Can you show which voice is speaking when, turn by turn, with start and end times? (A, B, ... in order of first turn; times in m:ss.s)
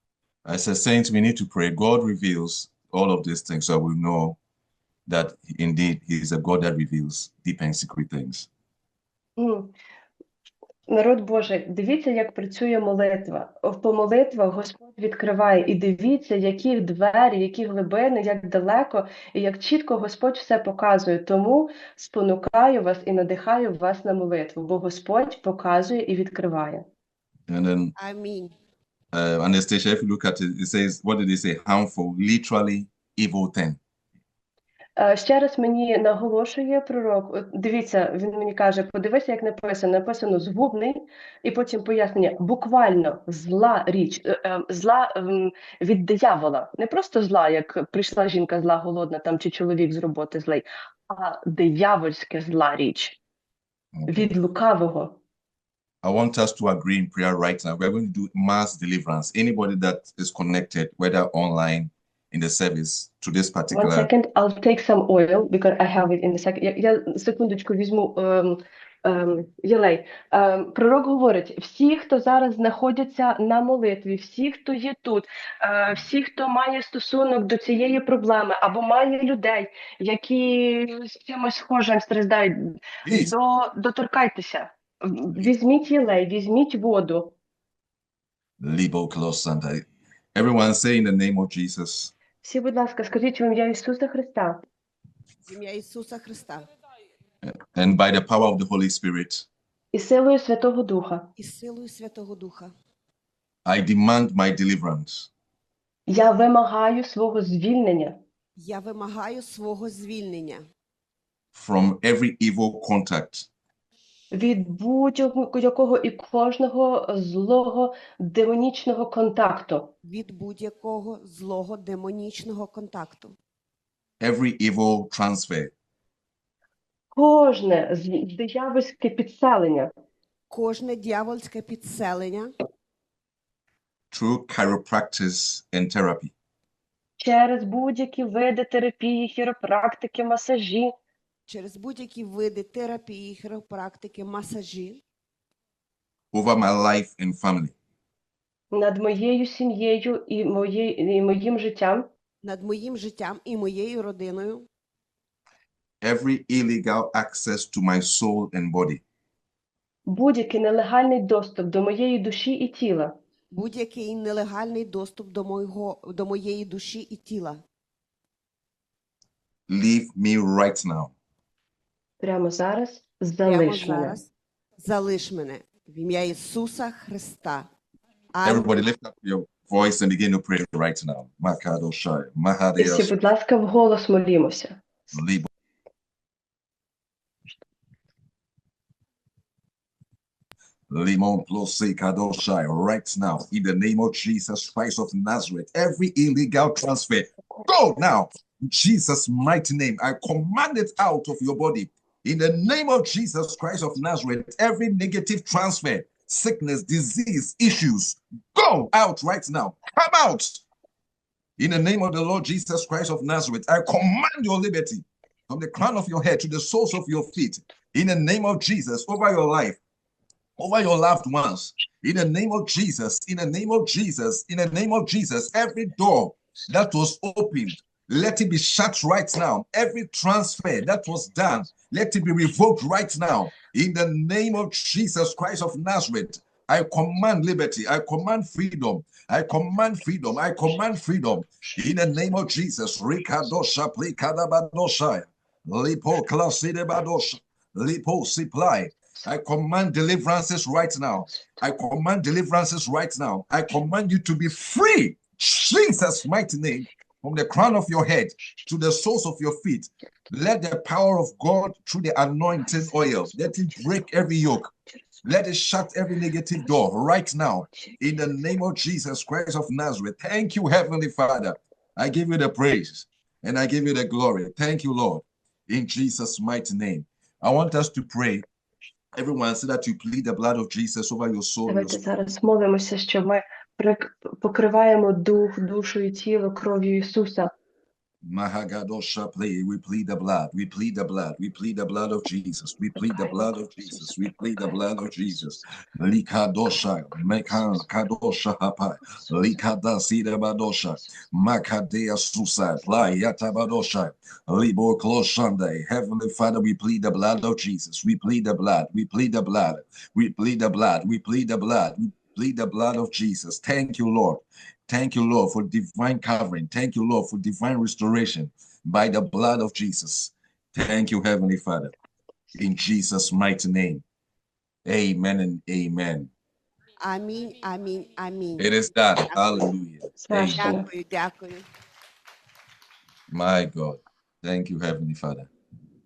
0:00.4-0:04.4 A
0:05.0-0:08.5 A
0:09.4-0:09.7 B
0:10.9-0:26.8 B
0:27.5-0:27.9 A
0:28.0-0:28.5 C
0:29.1-0:33.8 A
0:35.0-0:53.2 B
0:53.9-0:54.3 A
0:54.1-0:55.2 B
0:56.0-1:04.1 A
1:03.7-1:27.3 B
1:23.0-1:23.3 A
1:28.6-1:32.1 A
1:32.4-1:34.6 B
1:35.4-1:36.7 C
1:37.4-1:39.5 A
1:39.9-1:41.3 B
1:41.4-1:42.7 C
1:43.6-1:45.3 A
1:46.1-1:48.2 B
1:48.6-1:50.6 C
1:51.5-1:53.5 A
1:54.3-1:59.9 B
2:00.0-2:03.4 C
2:04.2-2:05.7 A
2:07.1-2:09.9 B
2:10.5-2:12.5 C
2:14.1-2:16.3 A
2:17.2-2:20.9 B
2:21.5-2:25.0 C
2:26.3-2:27.7 A
2:28.7-2:32.1 B
2:32.4-2:34.7 C
2:36.0-2:39.0 A
2:40.1-2:43.2 B
2:43.5-2:47.6 C
2:49.7-2:51.1 A
2:52.2-2:54.2 B
2:53.4-2:57.7 C
2:58.3-2:58.8 C
2:58.4-3:03.1 A
3:02.8-3:04.8 B
3:05.1-3:05.5 A
3:10.9-3:30.6 A
3:31.6-3:39.8 A
3:40.6-4:24.7 A
4:25.2-4:38.4 A
4:39.1-4:42.0 A
4:41.7-4:47.5 B
4:48.2-5:21.9 A
5:22.5-5:24.0 A
5:24.8-5:26.3 A
5:27.0-5:28.7 C
5:28.6-5:30.8 A
5:29.2-5:29.7 C
5:30.2-5:30.9 B
5:30.5-5:31.6 C
5:33.3-5:35.5 A